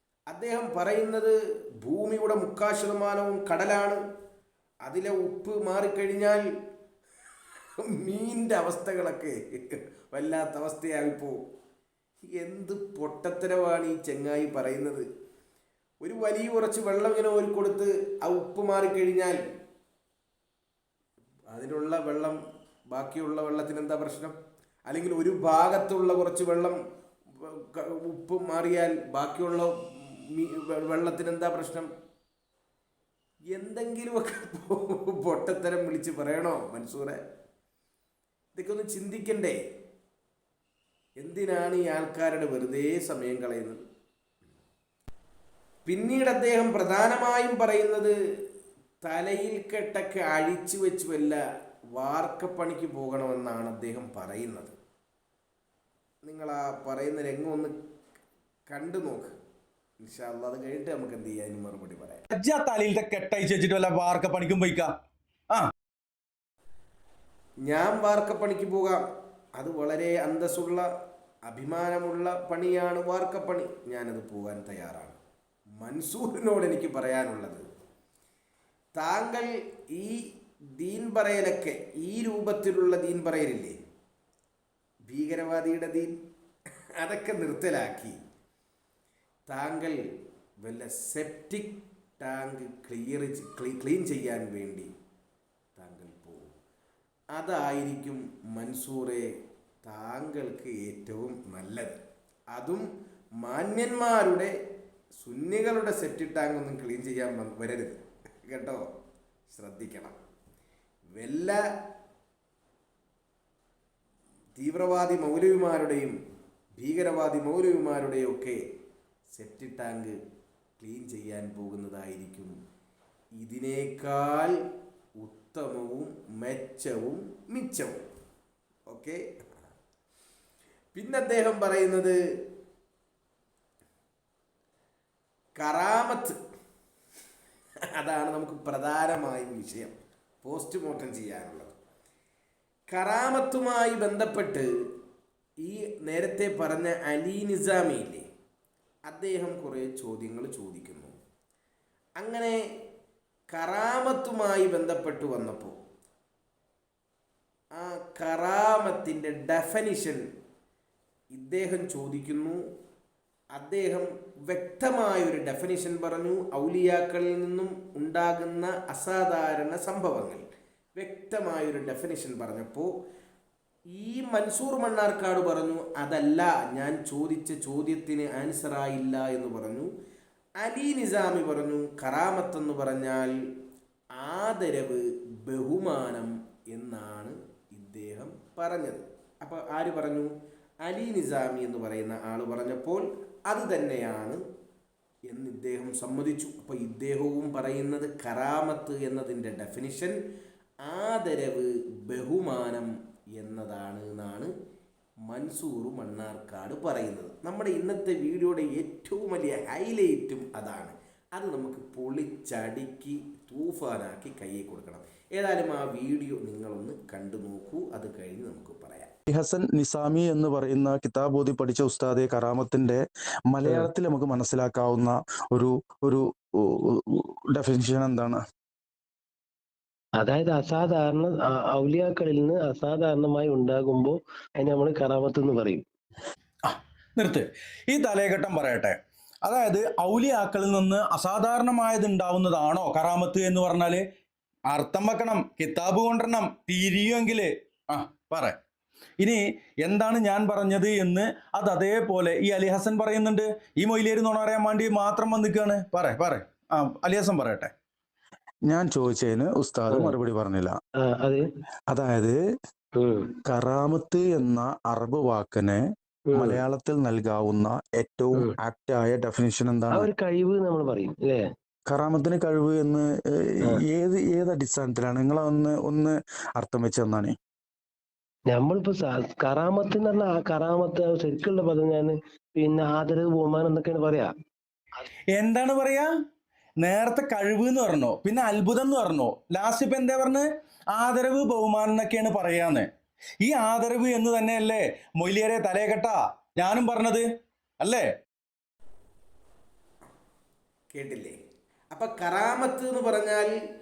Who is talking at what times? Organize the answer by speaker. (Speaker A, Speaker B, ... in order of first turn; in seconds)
Speaker A: 0.3-4.0, 4.8-6.4, 7.8-11.4, 12.3-15.1, 16.0-19.4, 21.5-22.4, 22.9-24.4, 24.9-26.8, 27.4-31.9, 33.5-37.2, 38.5-39.6, 41.2-43.8, 45.9-48.1, 49.0-51.4, 52.0-54.8, 56.2-57.8, 58.7-59.4, 60.0-62.2, 67.7-69.0, 69.6-70.9, 71.5-75.2, 75.8-77.6, 79.0-80.2, 80.8-83.8, 85.1-86.2, 87.0-88.2, 89.5-90.0, 90.6-94.9, 95.8-96.5, 97.4-99.3, 99.8-102.0, 102.5-102.9, 103.4-104.5, 105.2-108.8, 109.5-110.2, 111.2-111.6, 114.6-116.2, 116.8-118.6, 119.3-120.2, 120.8-122.6, 123.4-124.6, 125.2-128.0, 128.9-129.7, 130.9-132.2, 135.6-136.4, 138.0-141.8, 142.9-144.7, 145.6-148.2, 149.1-151.2, 152.2-152.6, 153.5-155.8, 157.8-160.2, 161.3-162.6, 163.6-170.4, 171.0-172.9, 173.9-179.9, 180.6-183.3, 184.2-190.3, 190.8-194.4, 195.3-200.2, 200.9-204.5, 205.3-219.1, 300.9-301.4, 301.9-303.5
Speaker B: 62.3-64.9, 236.7-244.1, 244.7-248.6, 249.2-257.7, 285.4-286.1, 286.8-292.9, 293.4-297.3, 297.8-298.1
Speaker C: 219.3-228.4, 258.7-260.8, 261.9-262.4, 263.5-265.8, 266.4-270.1, 271.9-277.4
Speaker D: 230.2-235.8, 261.0-261.4, 263.0-263.3, 266.3-266.6, 269.9-271.4, 278.5-284.3